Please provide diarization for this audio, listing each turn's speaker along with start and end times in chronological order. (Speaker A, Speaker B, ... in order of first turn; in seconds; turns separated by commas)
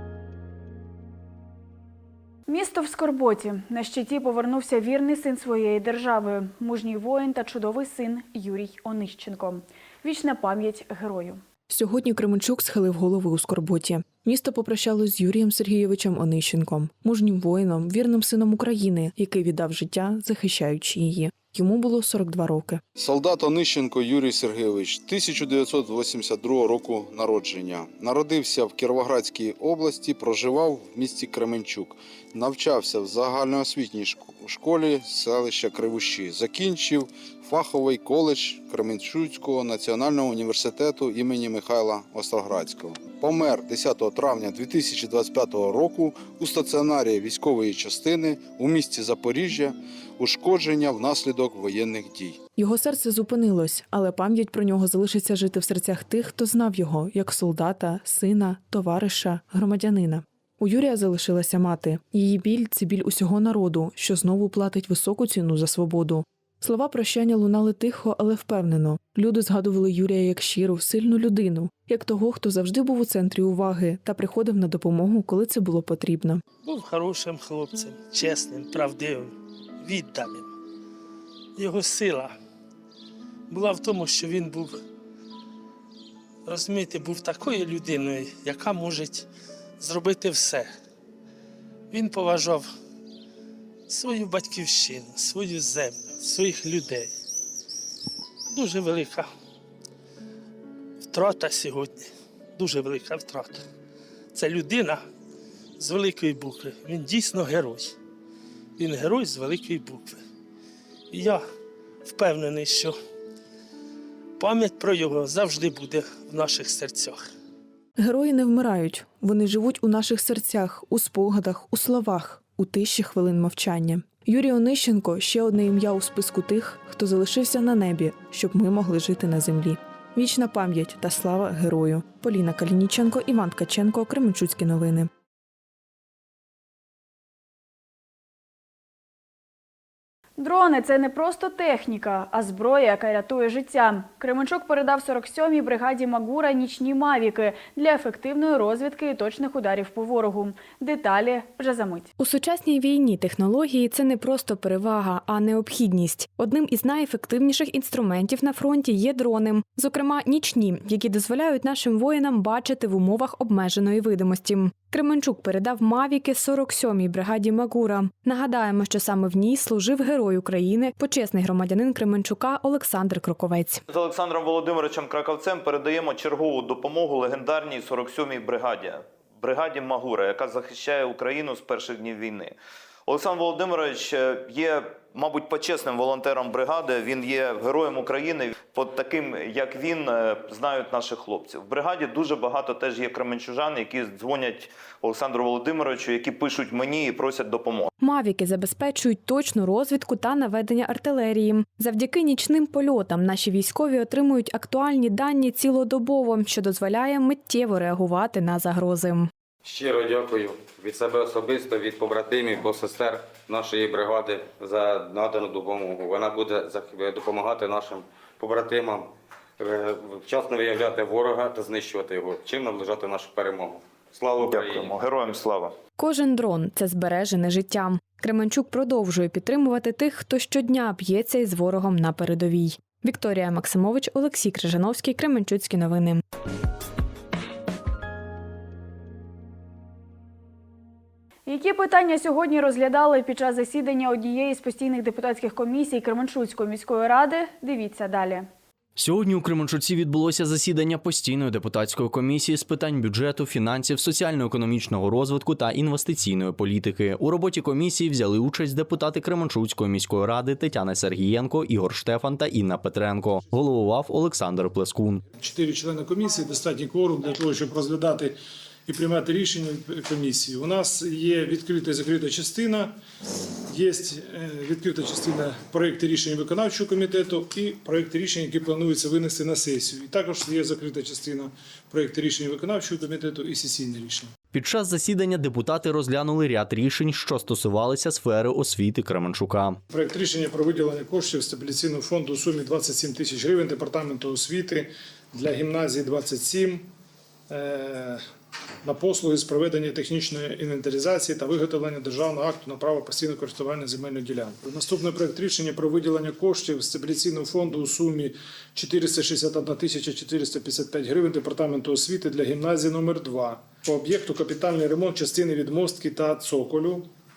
Speaker A: 2.5-11.4, Speaker B: 11.7-22.8, Speaker C: 23.0-52.4, Speaker B: 52.6-76.4, Speaker D: 76.6-80.5, Speaker D: 81.6-82.3, Speaker D: 83.5-84.8, Speaker D: 86.5-89.3, Speaker D: 89.8-90.7, Speaker D: 91.9-92.7, Speaker D: 93.9-97.1, Speaker D: 98.5-99.3, Speaker D: 101.0-103.6, Speaker D: 104.3-105.0, Speaker D: 105.8-107.9, Speaker D: 108.8-110.2, Speaker D: 111.1-111.4, Speaker D: 112.0-113.0, Speaker D: 114.4-117.2, Speaker B: 118.0-135.1, Speaker A: 140.4-152.1, Speaker E: 152.2-173.8, Speaker F: 173.9-182.6, Speaker F: 183.1-197.9, Speaker E: 198.0-209.3, Speaker G: 209.6-224.9, Speaker F: 224.4-225.8, Speaker E: 226.0-236.2, Speaker A: 241.4-248.5, Speaker H: 249.0-265.2, Speaker I: 265.4-268.3, Speaker I: 268.9-272.9, Speaker I: 273.7-284.3, Speaker H: 284.5-289.8, Speaker I: 289.9-296.8, Speaker I: 297.5-298.2, Speaker I: 298.9-317.0